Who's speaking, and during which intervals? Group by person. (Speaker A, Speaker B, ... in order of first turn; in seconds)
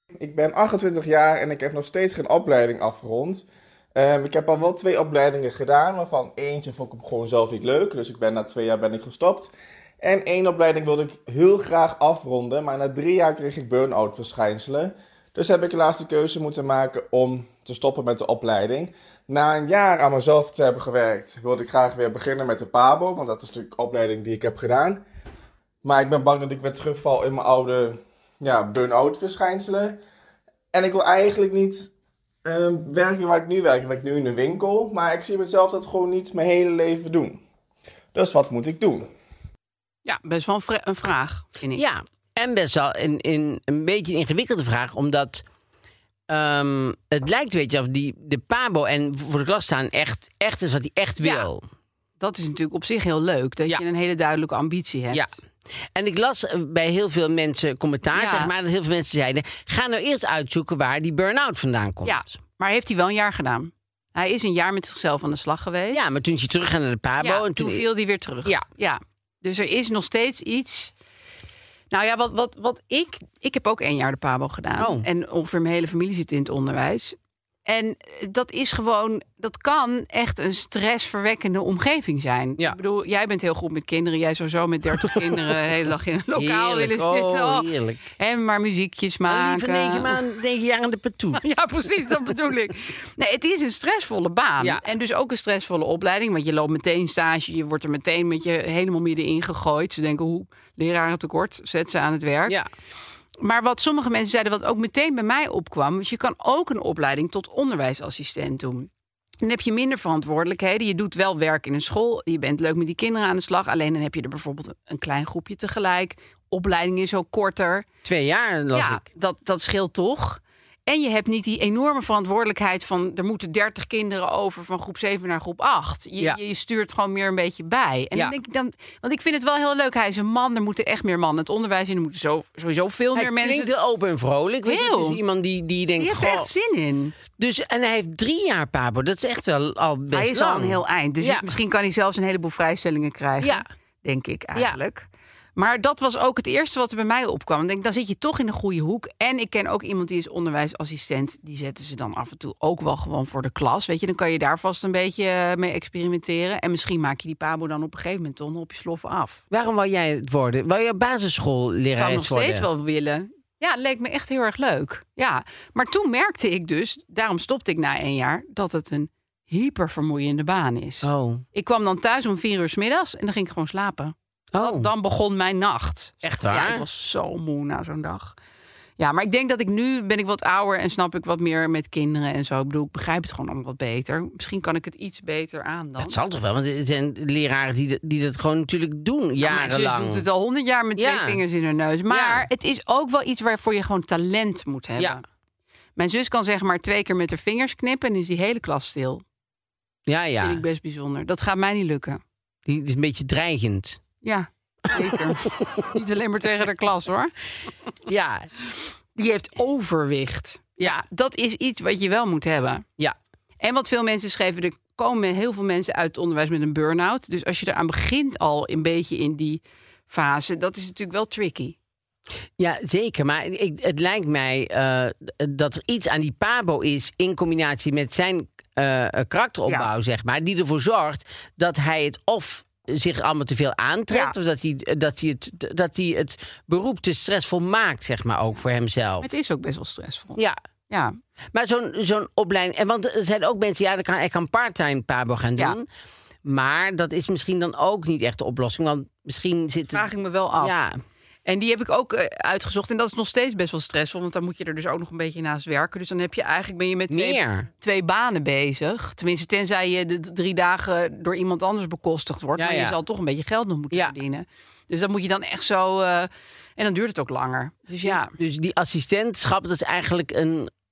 Speaker A: 0.2-25.0, 25.8-30.0, 30.7-31.9, 32.4-37.4, 38.1-39.1
Speaker B: 40.0-41.8, 51.2-51.5, 52.2-55.3, 58.1-58.5, 62.0-66.2, 67.2-70.9, 71.9-90.2, 91.4-102.6, 103.4-108.9, 109.4-117.9, 118.7-133.7, 134.6-135.2, 136.0-137.1, 140.1-159.4, 161.9-178.4, 179.0-186.2, 189.4-195.2, 195.9-199.2, 200.4-202.2, 204.2-207.3, 209.1-212.8, 213.6-221.8, 234.1-234.3, 239.2-241.2, 249.9-250.8, 251.4-268.3
Speaker C: 41.7-45.4, 46.3-51.6, 55.1-55.4, 55.9-62.4, 65.9-67.9, 74.8-75.0, 85.0-85.4, 86.3-88.0, 89.2-91.4, 94.6-94.8, 118.0-119.0, 133.1-136.5, 137.3-141.5, 143.4-143.7, 159.5-162.7, 171.0-171.4, 174.5-174.9, 176.2-176.8, 186.0-190.2, 191.0-191.4, 192.1-192.4, 200.1-200.6, 202.6-204.0, 204.9-205.9, 208.1-208.5, 222.6-239.3, 241.5-245.8, 246.4-250.1, 250.6-251.0, 257.1-257.7, 262.6-263.0, 268.0-270.7